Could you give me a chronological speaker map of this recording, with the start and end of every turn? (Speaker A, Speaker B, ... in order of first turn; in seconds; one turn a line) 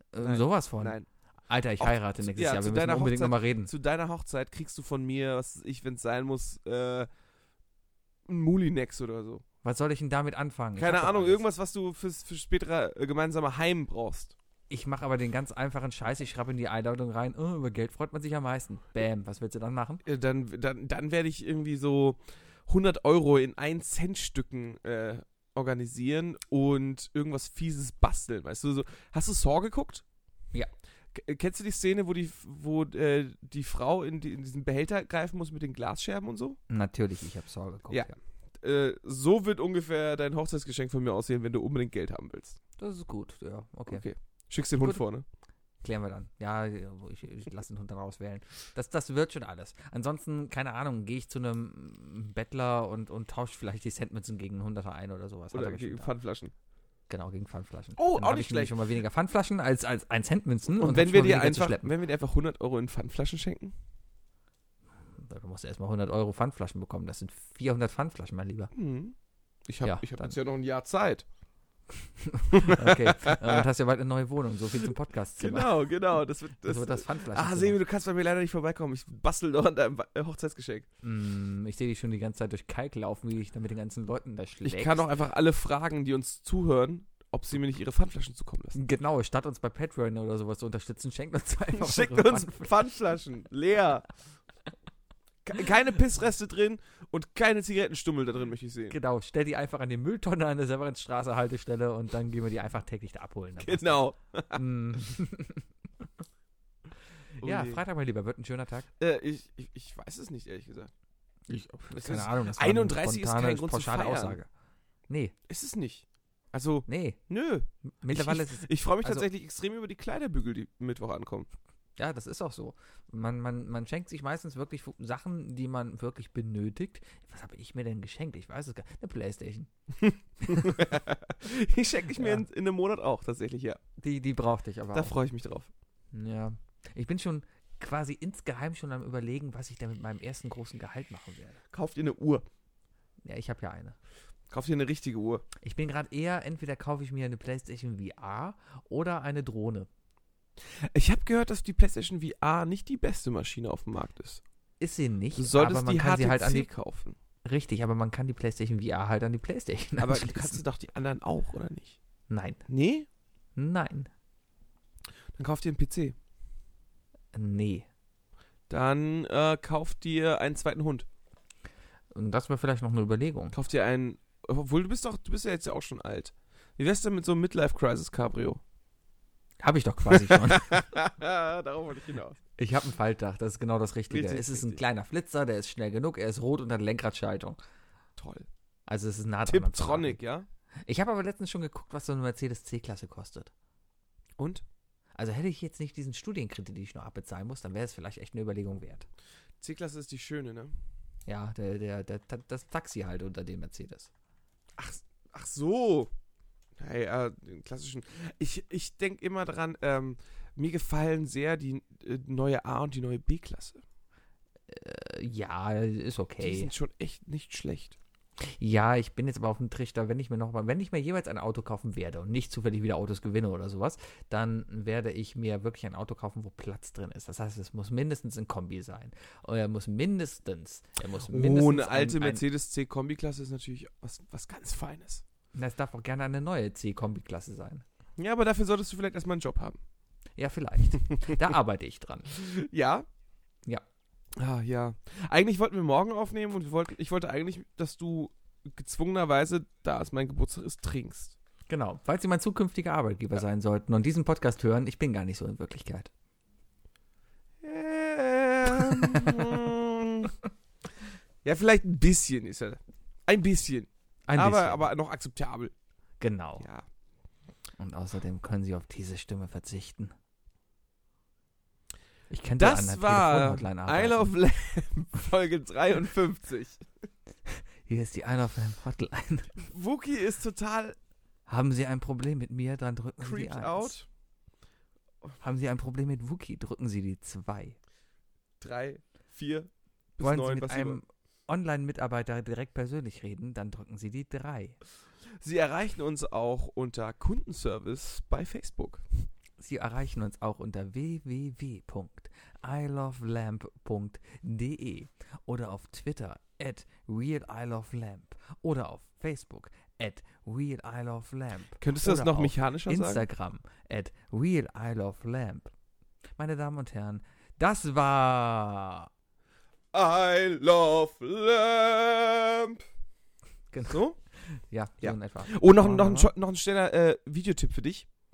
Speaker A: 0.1-1.0
Speaker B: 0.2-1.1
Speaker A: 1.5-3.7
Speaker B: 1.8-7.1
Speaker B: 8.3-9.4
Speaker A: 9.6-11.4
Speaker B: 10.8-14.3
Speaker A: 14.7-20.0
Speaker B: 20.1-30.0
Speaker B: 31.1-36.6
Speaker A: 36.7-38.2
Speaker B: 37.9-42.6
Speaker A: 42.8-44.1
Speaker B: 43.9-45.2
Speaker A: 45.8-56.1
Speaker B: 55.5-56.5
Speaker A: 57.1-61.9
Speaker B: 58.0-58.8
Speaker B: 60.8-63.8
Speaker A: 65.2-68.7
Speaker B: 68.7-71.2
Speaker A: 69.8-70.3
Speaker A: 72.2-75.9
Speaker B: 72.5-73.7
Speaker B: 75.4-80.9
Speaker A: 76.6-77.8
Speaker A: 81.0-85.1
Speaker B: 84.6-88.8
Speaker A: 88.8-92.8
Speaker B: 91.7-94.1
Speaker B: 95.5-99.0
Speaker A: 98.9-105.7
Speaker B: 103.6-104.7
Speaker B: 107.4-107.8
Speaker A: 107.4-108.9
Speaker B: 109.0-110.9
Speaker A: 111.5-114.5
Speaker B: 112.0-114.4
Speaker A: 115.1-115.3
Speaker B: 115.5-121.5
Speaker A: 116.9-117.2
Speaker A: 118.0-119.3
Speaker A: 122.0-129.7
Speaker B: 130.0-133.8
Speaker A: 130.4-130.9
Speaker A: 132.2-132.4
Speaker A: 134.0-135.1
Speaker B: 134.9-135.7
Speaker A: 136.1-141.6
Speaker B: 141.7-142.5
Speaker A: 143.2-144.0
Speaker B: 144.5-145.4
Speaker A: 145.6-149.9
Speaker B: 150.7-154.4
Speaker A: 154.8-156.7
Speaker B: 155.3-157.2
Speaker A: 157.4-160.6
Speaker B: 160.0-162.0
Speaker A: 162.3-162.6
Speaker B: 162.7-163.1
Speaker A: 163.6-164.1
Speaker B: 165.3-166.2
Speaker A: 167.3-167.9
Speaker B: 168.7-171.1
Speaker A: 172.1-173.6
Speaker B: 173.5-178.6
Speaker A: 179.6-180.9
Speaker B: 180.1-182.4
Speaker A: 182.6-187.6
Speaker B: 184.1-184.8
Speaker B: 188.2-188.5
Speaker A: 188.9-190.2
Speaker B: 189.5-190.5
Speaker A: 190.8-193.5
Speaker B: 194.4-194.7
Speaker A: 195.2-199.1
Speaker B: 199.6-200.7
Speaker A: 201.3-204.1
Speaker B: 204.8-206.1
Speaker B: 206.8-213.8
Speaker A: 214.7-216.7
Speaker B: 216.4-218.0
Speaker A: 218.4-232.4
Speaker B: 231.3-235.2
Speaker A: 235.6-237.8
Speaker B: 238.2-239.8
Speaker A: 240.4-242.3
Speaker B: 242.3-243.1
Speaker B: 244.4-251.4
Speaker A: 251.7-256.1
Speaker B: 257.6-260.3
Speaker A: 258.8-259.5
Speaker B: 261.4-265.7
Speaker A: 264.3-264.9
Speaker A: 266.2-266.7
Speaker B: 266.6-266.9
Speaker A: 267.8-270.1
Speaker A: 272.3-274.3
Speaker B: 272.6-276.9
Speaker A: 277.5-279.5
Speaker B: 279.6-281.0
Speaker A: 281.5-283.9
Speaker B: 283.2-284.1
Speaker A: 285.4-287.8
Speaker B: 288.6-291.0
Speaker A: 290.2-294.8
Speaker B: 295.4-299.3
Speaker A: 299.6-315.7
Speaker B: 311.8-313.3
Speaker A: 316.4-319.1
Speaker B: 319.9-322.9
Speaker A: 323.7-326.3
Speaker B: 323.9-324.2
Speaker B: 325.0-328.1